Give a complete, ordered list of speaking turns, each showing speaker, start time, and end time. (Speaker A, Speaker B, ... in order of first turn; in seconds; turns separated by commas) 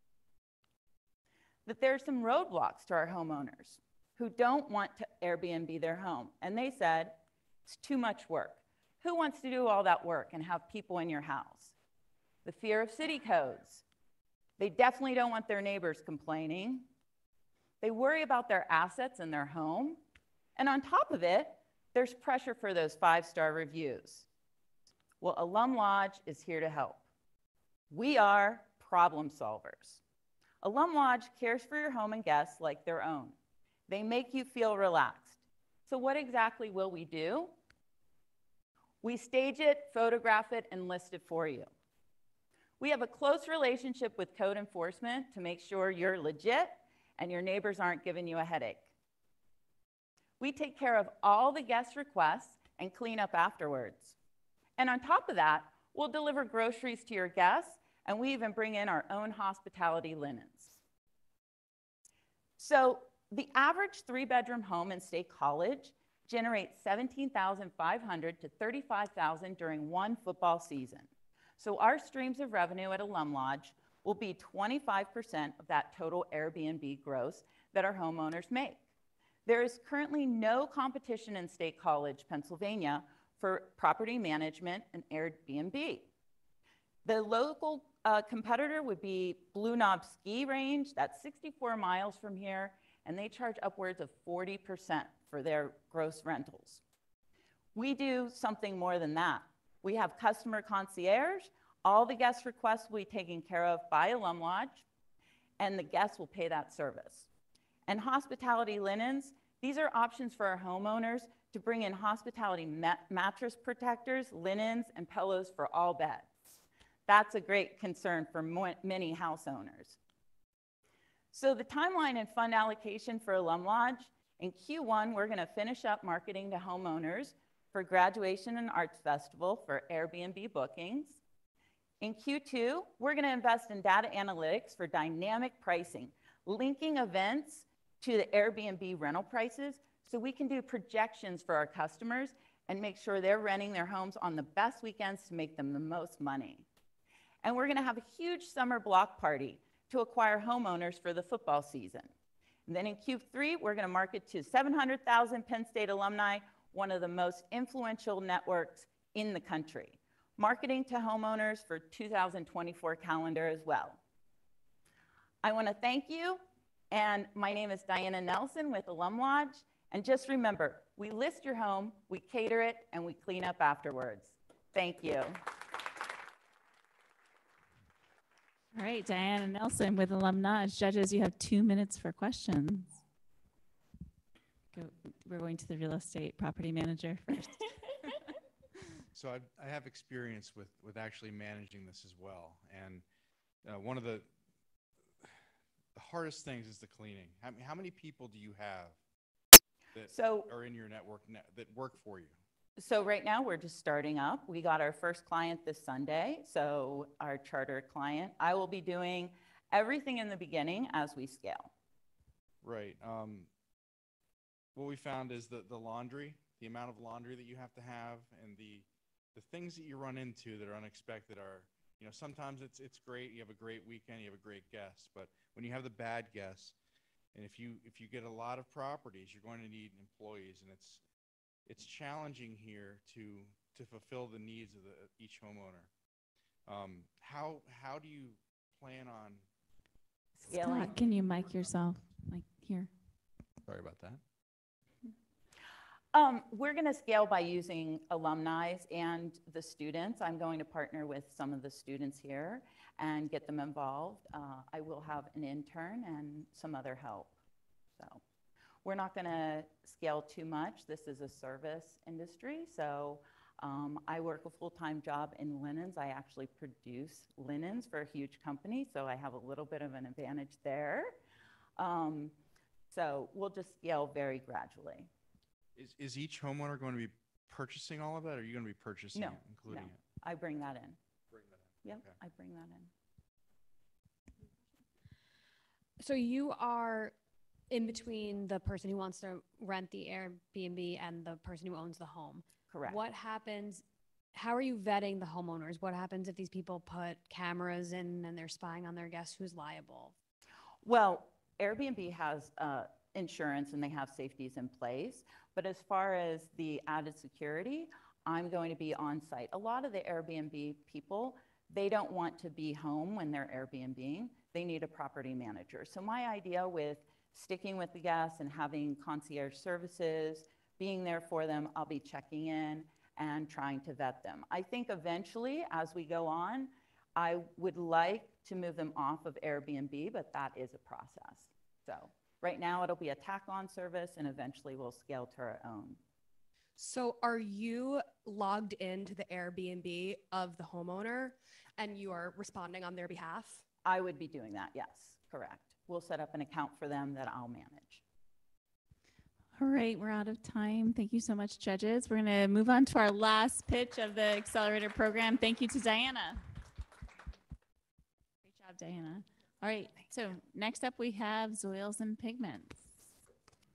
Speaker A: 1.6-11.7, Speaker A: 12.4-13.8, Speaker A: 14.6-16.9, Speaker A: 17.8-20.0, Speaker A: 20.6-24.2, Speaker A: 25.2-27.0, Speaker A: 27.9-30.0, Speaker A: 30.6-33.3, Speaker A: 33.9-37.5, Speaker A: 39.0-41.7, Speaker A: 42.8-48.9, Speaker A: 50.4-54.1, Speaker A: 54.8-60.8, Speaker A: 62.6-78.8, Speaker A: 79.5-86.1, Speaker A: 87.0-96.8, Speaker A: 97.7-104.8, Speaker A: 105.6-107.3, Speaker A: 107.9-116.3, Speaker A: 117.1-120.0, Speaker A: 121.3-131.2, Speaker A: 132.0-146.6, Speaker A: 147.4-152.1, Speaker A: 152.7-164.0, Speaker A: 165.4-175.4, Speaker B: 178.7-183.0, Speaker B: 184.7-187.7, Speaker C: 189.1-193.0, Speaker C: 193.6-194.3, Speaker C: 195.9-199.0, Speaker C: 199.9-202.4, Speaker A: 200.1-200.5, Speaker A: 202.8-211.7, Speaker C: 212.6-213.5, Speaker C: 214.7-226.7, Speaker C: 227.3-231.0, Speaker C: 231.7-235.9, Speaker C: 236.7-239.4, Speaker A: 240.4-241.4, Speaker B: 240.4-242.9, Speaker C: 243.6-244.2, Speaker A: 246.1-257.3, Speaker A: 257.9-258.2, Speaker A: 258.8-271.1, Speaker A: 271.8-272.3, Speaker A: 272.9-275.1, Speaker C: 275.8-280.0, Speaker A: 279.1-281.0, Speaker C: 281.3-282.2, Speaker A: 281.8-282.9, Speaker D: 286.0-287.1, Speaker D: 287.7-293.8, Speaker A: 292.7-293.0, Speaker D: 294.3-300.1, Speaker A: 300.8-336.0, Speaker E: 336.8-343.6, Speaker A: 343.8-348.0, Speaker B: 349.6-356.4, Speaker B: 358.4-362.9